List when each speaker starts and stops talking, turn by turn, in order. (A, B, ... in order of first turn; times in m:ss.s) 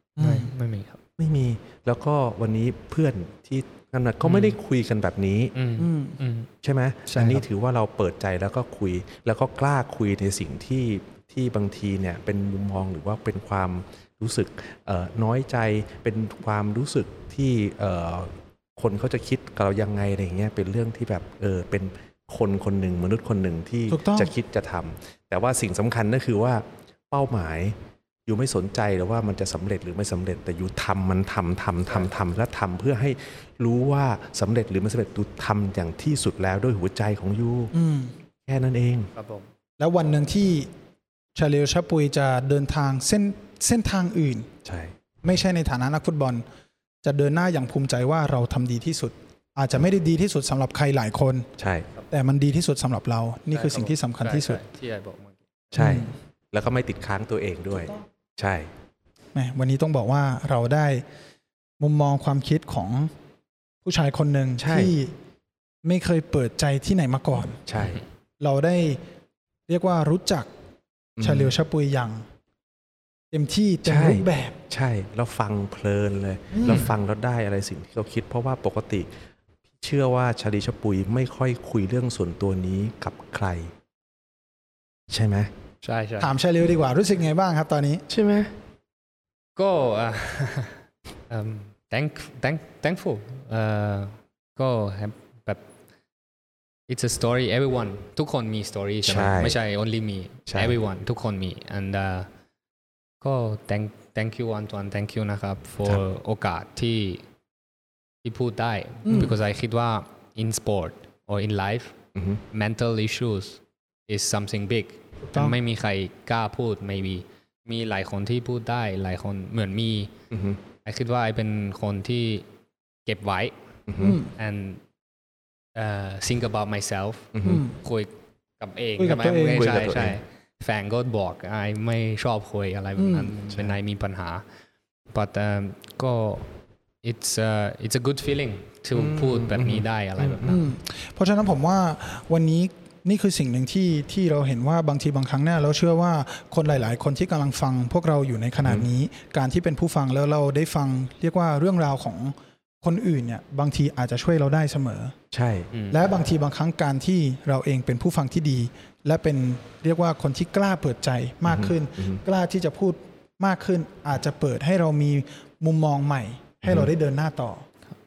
0:00.2-0:00.5 A
0:00.2-0:01.0 B
0:01.2-0:05.6 C
0:04.2-0:04.6 B
0:05.6-0:06.5 B
0:05.8-0:06.2 A
0:06.6-0:37.7 C
0:07.1-0:07.4 B
0:23.9-0:24.3 A
0:37.7-0:38.1 A
0:38.5-0:39.1 C
0:39.2-0:39.5 B
0:39.8-0:40.7 A
0:41.4-0:44.5 A
0:44.6-0:44.9 C
0:45.2-0:46.4 A
0:47.0-0:51.5 A
0:51.6-0:51.9 C
0:52.1-0:54.6 A
0:53.5-0:55.4 B
0:55.7-0:58.7 C
0:55.8-0:56.1 A
0:59.4-1:01.0 A
1:01.8-1:03.1 A
1:03.8-1:05.1 A
1:04.6-1:04.9 C
1:05.8-1:07.6 A
1:07.7-1:08.0 C
1:08.4-1:09.0 A
1:09.7-1:10.5 A
1:11.2-1:11.6 C
1:11.2-1:12.2 A
1:13.3-1:14.6 A
1:13.9-1:19.1 C
1:16.5-1:16.9 A
1:19.8-1:23.7 C
1:25.1-1:25.5 C
1:25.8-1:26.3 B
1:26.2-1:28.0 A
1:28.1-1:28.5 C
1:29.6-1:35.6 B
1:36.9-1:42.3 B
1:39.0-1:39.6 C
1:40.5-1:40.8 C
1:43.2-1:47.2 B
1:48.2-1:52.0 B
1:49.0-1:49.4 A
1:52.2-1:52.4 C
1:52.5-2:00.1 B
1:55.3-1:55.6 A
2:00.3-2:00.6 C
2:00.8-2:02.4 B
2:03.1-2:03.6 B
2:03.9-2:04.2 C
2:04.0-2:04.3 A
2:04.3-2:04.8 B
2:05.8-2:14.4 B
2:07.4-2:07.6 C
2:07.4-2:07.8 A
2:09.0-2:09.7 A
2:09.5-2:10.2 C
2:13.0-2:13.3 A
2:13.5-2:13.8 C
2:15.1-2:16.5 B
2:17.0-2:20.6 B
2:18.9-2:20.6 C
2:20.4-2:35.2 A
2:28.6-2:28.9 C
2:35.3-2:35.7 C
2:35.7-2:36.0 B
2:35.9-2:47.6 A
2:41.5-2:42.2 C
2:46.6-2:46.9 C